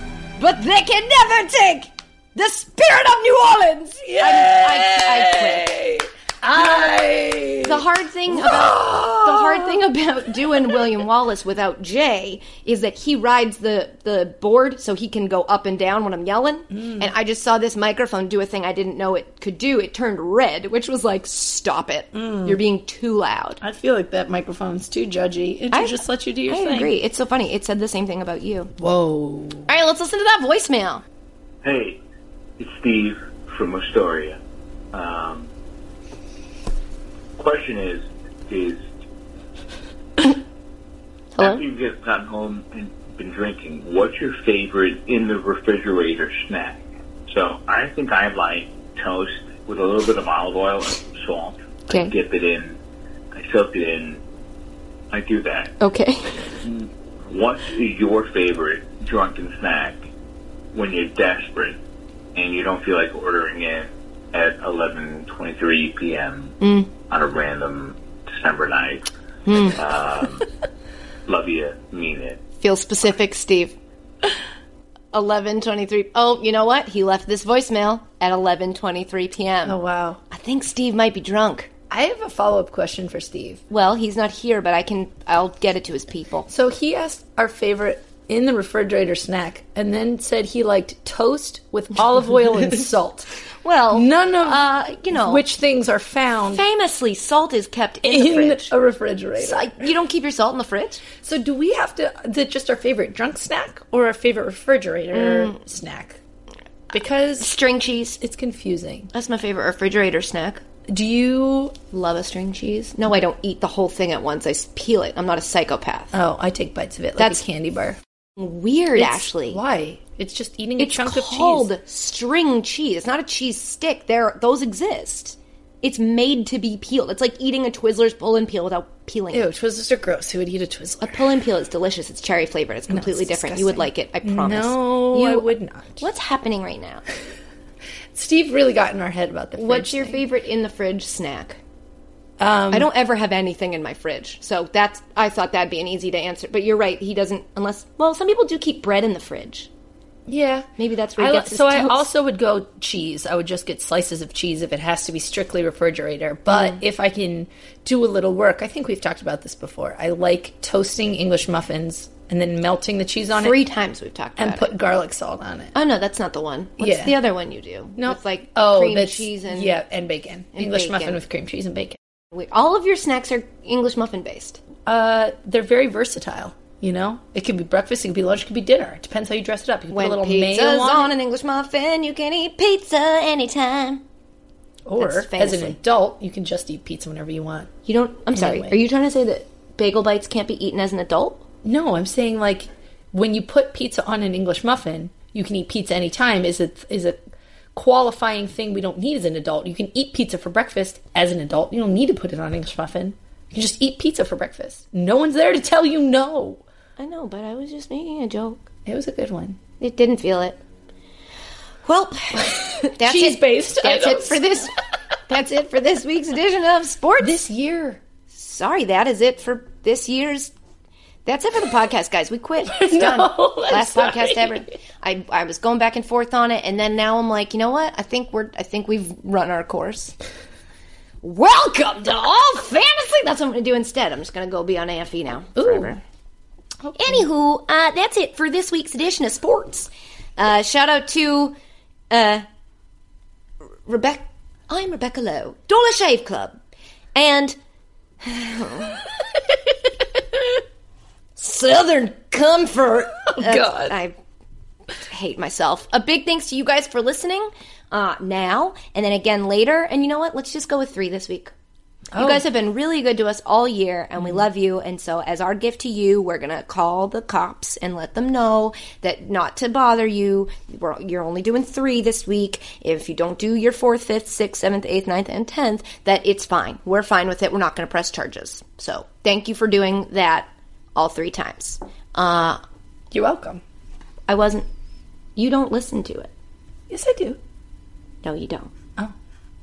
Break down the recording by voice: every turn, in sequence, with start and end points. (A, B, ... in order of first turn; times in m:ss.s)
0:00.4-0:05.7 A
0:04.1-0:09.8 B
0:06.6-0:06.8 A
0:07.6-0:23.6 A
0:16.7-0:17.1 B
0:22.1-0:22.6 B
0:23.6-0:26.9 B
0:25.7-0:28.7 A
0:28.8-0:29.7 B
0:29.7-0:31.0 A
0:31.6-0:32.0 C
0:32.6-0:34.4 C
0:34.9-0:35.5 C
0:37.4-0:38.8 C
0:41.4-0:41.6 A
0:41.4-0:52.8 C
0:51.9-0:52.1 A
0:53.3-0:54.2 C
0:55.1-0:55.8 C
0:55.8-0:56.4 A
0:56.6-1:00.0 C
1:00.7-1:01.8 C
1:02.4-1:09.1 C
1:06.6-1:06.9 A
1:09.4-1:09.8 A
1:09.6-1:10.5 C
1:11.3-1:12.4 C
1:12.6-1:13.8 A
1:15.1-1:19.8 A
1:19.6-1:20.2 B
1:20.3-1:21.7 A
1:21.9-1:23.6 B
1:23.7-1:26.5 A
1:26.5-1:33.3 B
1:33.6-1:35.4 A
1:33.9-1:36.6 B
1:36.5-1:38.7 A
1:38.0-1:39.7 B
1:39.4-1:41.0 A
1:41.2-1:46.2 B
1:45.1-1:45.6 A
1:46.9-1:47.5 B
1:47.4-1:48.2 A
1:48.2-1:49.1 B
1:49.1-1:50.6 A
1:50.9-1:51.8 B
1:51.9-1:56.2 A
1:56.1-1:58.0 B
1:57.2-1:57.4 A
1:58.4-1:59.6 A
1:59.0-2:01.7 B
2:00.8-2:09.5 A
2:09.3-2:11.2 B
2:11.0-2:17.0 A
2:12.9-2:16.0 B
2:18.1-2:20.2 B
2:19.6-2:21.6 A
2:22.4-2:22.9 B
2:22.7-2:29.7 A
2:30.3-2:43.6 B
2:30.8-2:32.1 A
2:36.5-2:36.8 A
2:43.3-2:44.7 A
2:44.4-2:45.8 B
2:45.7-2:49.8 A
2:46.8-2:47.2 B
2:48.0-2:52.0 B
2:50.6-2:51.2 A
2:52.3-2:54.6 A
2:54.9-3:01.1 B
2:59.9-3:04.0 A
3:04.9-3:07.7 B
3:05.0-3:05.8 A
3:07.9-3:11.4 A
3:08.3-3:08.8 B
3:11.6-3:17.2 B
3:17.8-3:26.6 B
3:27.0-3:28.7 A
3:28.9-3:29.6 B
3:29.8-3:30.6 A
3:31.8-3:34.8 A
3:32.4-3:34.4 B
3:35.3-3:37.4 A
3:37.2-3:38.0 B
3:38.3-3:40.5 A
3:41.3-3:50.1 A
3:42.7-3:44.7 B
3:51.2-3:56.0 A
3:55.6-3:55.9 B
3:56.8-3:57.3 B
3:57.0-4:01.6 A
4:02.1-4:02.5 A
4:03.9-4:06.6 A
4:07.2-4:07.6 A
4:08.2-4:09.0 A
4:11.4-4:14.2 A
4:13.3-4:14.0 B
4:15.1-4:21.5 A
4:22.1-4:22.4 B
4:22.2-4:42.6 A
4:43.1-4:43.6 B
4:44.3-4:44.7 A
4:45.4-4:46.3 A
4:46.9-4:47.4 B
4:48.2-4:48.7 A